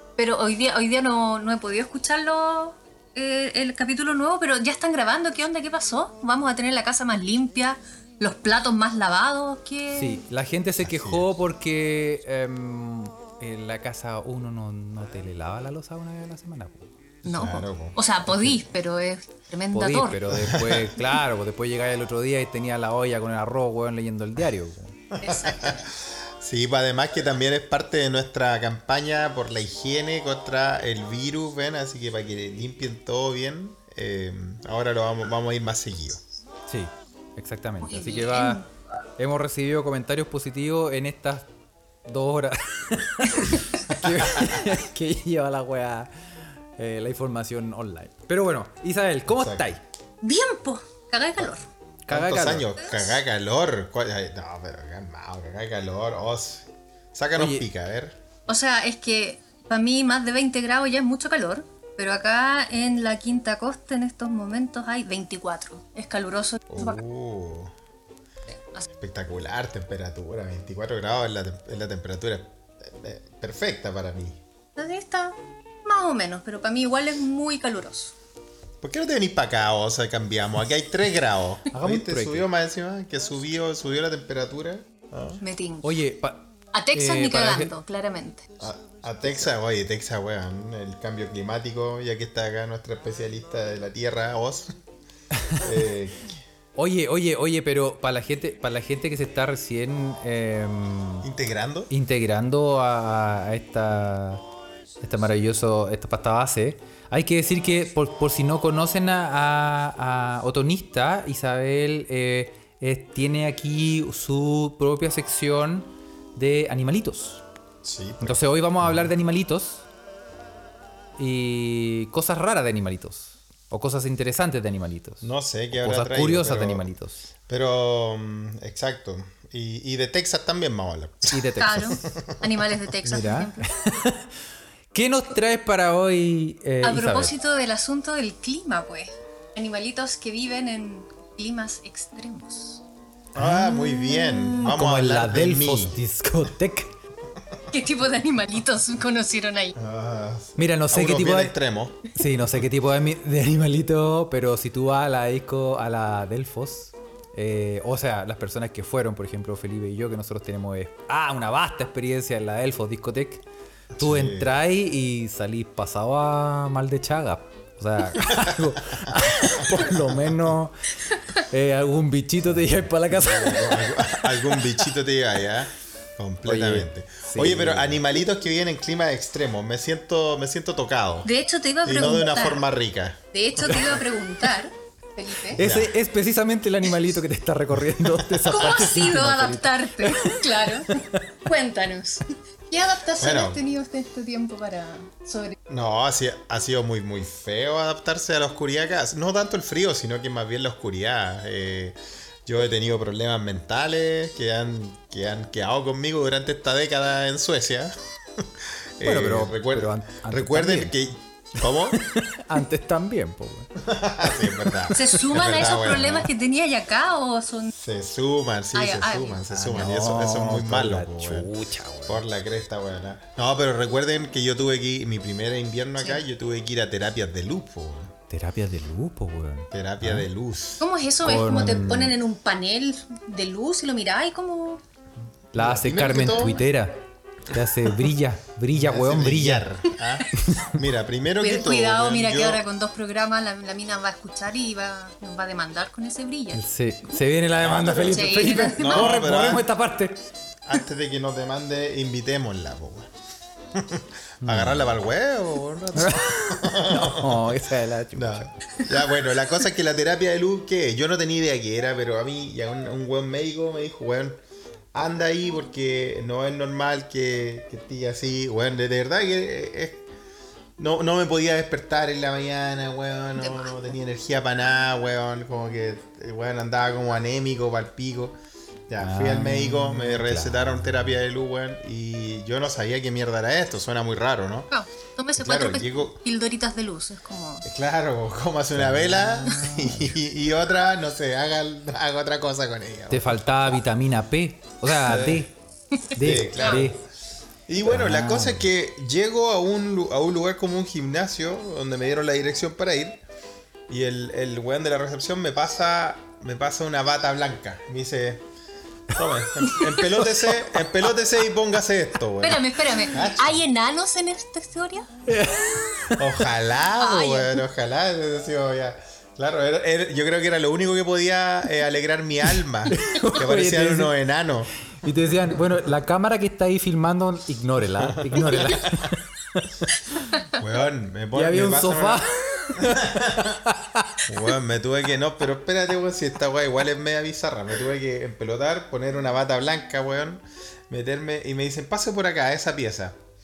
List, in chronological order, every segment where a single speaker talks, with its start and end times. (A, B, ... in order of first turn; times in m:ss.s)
0:00.2-0:10.2 A
0:09.9-0:17.1 B
0:10.8-0:11.3 C
0:17.2-0:20.3 A
0:17.2-0:18.5 C
0:19.7-0:25.0 B
0:20.4-0:20.9 C
0:25.1-0:36.2 C
0:25.2-0:25.9 A
0:36.7-0:38.6 B
0:37.8-0:38.7 A
0:39.2-0:41.5 B
0:42.0-0:49.8 B
0:49.3-0:49.7 C
0:50.2-0:51.7 A
0:52.1-0:52.7 B
0:52.1-0:58.2 C
0:57.3-0:57.6 B
0:58.5-1:07.0 A
1:06.7-1:07.7 C
1:08.5-1:08.8 A
1:08.9-1:14.4 C
1:14.8-1:18.1 A
1:18.8-1:25.4 C
1:21.7-1:22.5 B
1:25.4-1:26.0 A
1:25.8-1:27.7 B
1:26.7-1:28.5 A
1:28.6-1:34.7 C
1:35.6-1:36.4 C
1:36.8-1:41.3 B
1:41.2-1:41.9 C
1:41.9-1:44.4 B
1:45.0-1:57.4 B
1:57.8-1:59.1 C
1:58.2-1:59.8 B
2:01.2-2:07.2 B
2:05.2-2:06.9 C
2:07.5-2:12.4 C
2:11.3-2:12.0 B
2:11.6-2:13.7 A
2:13.0-2:14.3 B
2:14.9-2:17.3 B
2:16.8-2:22.8 A
2:23.3-2:26.0 C
2:23.4-2:26.9 B
2:27.7-2:29.8 A
2:29.7-2:32.0 C
2:30.6-2:31.6 B
2:32.1-2:43.4 B
2:44.0-2:44.6 C
2:44.0-2:50.7 B
2:49.0-2:50.3 C
2:51.3-2:54.1 B
2:52.5-3:01.3 C
2:56.4-2:58.0 B
3:01.2-3:02.6 A
3:01.8-3:03.9 C
3:03.3-3:05.6 A
3:05.5-3:11.2 B
3:05.6-3:05.9 C
3:08.2-3:08.8 C
3:08.5-3:15.6 A
3:13.2-3:13.6 C
3:15.7-3:32.0 C
3:29.0-3:30.9 B
3:31.9-3:33.7 B
3:33.8-3:36.3 C
3:34.3-3:35.0 B
3:34.9-3:37.7 A
3:37.7-3:41.5 C
3:38.7-3:39.4 A
3:39.5-3:42.2 B
3:42.0-3:48.1 C
3:48.3-3:50.3 B
3:49.7-3:50.9 C
3:50.8-3:54.8 A
3:51.2-3:52.1 B
3:51.5-3:52.1 C
3:55.5-3:56.6 C
3:55.5-3:59.7 B
3:56.2-3:56.4 A
3:58.7-4:02.6 C
4:00.4-4:00.8 B
4:01.4-4:06.6 A
4:06.5-4:10.2 B
4:07.6-4:09.7 C
4:08.1-4:09.2 A
4:10.6-4:13.1 C
4:13.7-4:17.5 C
4:14.4-4:15.0 B
4:15.9-4:18.6 B
4:18.1-4:24.4 C
4:24.9-4:30.1 C
4:30.8-4:38.4 C
4:33.4-4:33.7 A
4:38.9-4:44.7 C
4:39.0-4:41.2 B
4:44.7-4:47.6 A
4:45.4-4:46.2 C
4:47.6-4:53.8 C
4:48.7-4:50.2 B
4:53.1-4:55.5 B
4:54.9-4:55.5 C
4:56.1-4:56.8 A
4:56.1-4:57.0 B
4:56.2-4:57.0 C
4:57.7-5:03.2 C
4:57.8-4:58.6 B
5:03.9-5:08.4 C
5:09.1-5:13.6 C
5:10.2-5:10.6 B
5:12.4-5:15.1 A
5:15.3-5:16.5 B
5:16.2-5:24.7 C
5:17.0-5:17.6 A
5:22.9-5:24.1 B
5:25.0-5:30.4 B
5:28.0-5:29.1 C
5:30.6-5:32.2 C
5:31.3-5:34.2 B
5:32.8-5:33.6 C
5:34.2-5:43.2 C